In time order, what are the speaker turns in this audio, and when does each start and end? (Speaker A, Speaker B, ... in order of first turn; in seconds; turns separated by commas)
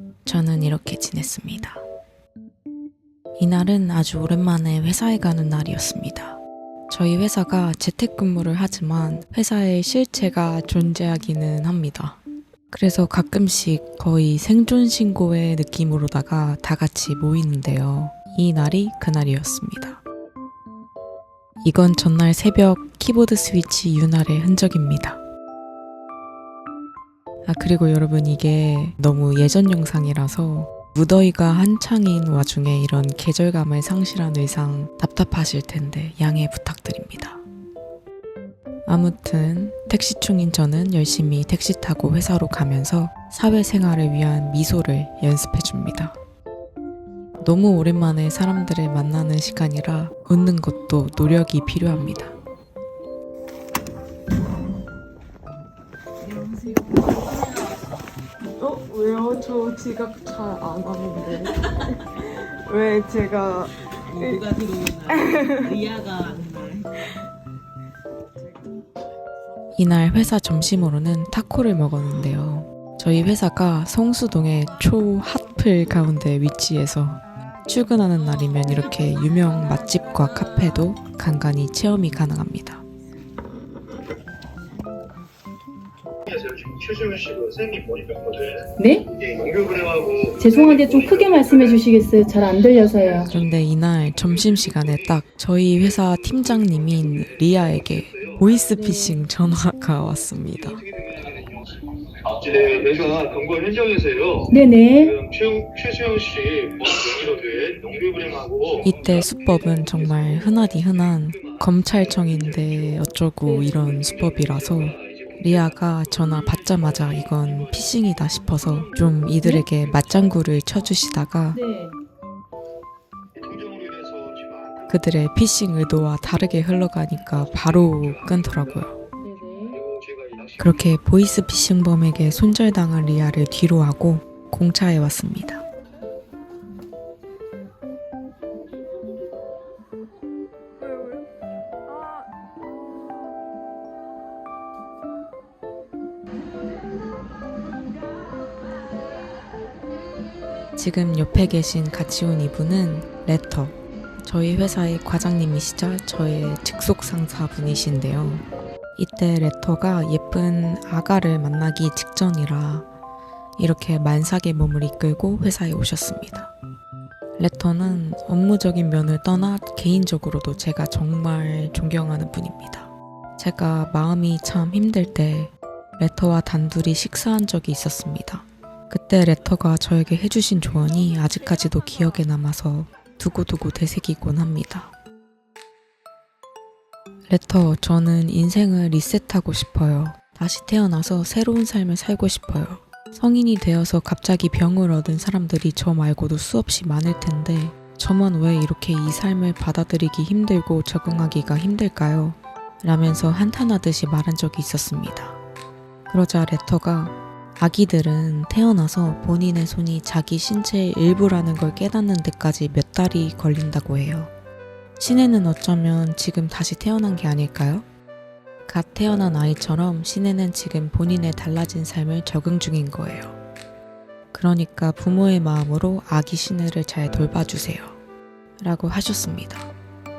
Speaker A: 0.3-1.8, Speaker A: 3.4-12.2, Speaker A: 12.7-20.0, Speaker A: 21.6-25.2, Speaker A: 27.5-37.4, Speaker A: 38.9-46.2, Speaker A: 47.4-52.4, Speaker B: 56.2-57.8, Speaker C: 58.6-61.8, Speaker C: 62.3-64.5, Speaker B: 64.0-66.9, Speaker C: 65.1-65.8, Speaker A: 69.8-82.8, Speaker B: 86.3-88.4, Speaker D: 88.8-89.4, Speaker B: 89.4-90.2, Speaker D: 90.2-93.3, Speaker A: 93.3-100.9, Speaker D: 98.7-99.2, Speaker B: 102.6-104.2, Speaker D: 104.5-105.2, Speaker B: 105.3-108.5, Speaker A: 108.8-121.6, Speaker D: 113.4-113.7, Speaker D: 121.5-122.0, Speaker A: 124.9-128.9, Speaker D: 129.2-129.9, Speaker A: 130.6-135.6, Speaker A: 150.8-158.4, Speaker A: 159.0-162.9, Speaker A: 163.6-166.5, Speaker A: 167.4-184.9, Speaker A: 187.3-205.4, Speaker A: 206.1-214.3, Speaker A: 215.0-217.8, Speaker A: 218.7-223.4, Speaker A: 224.3-228.0, Speaker A: 228.6-229.7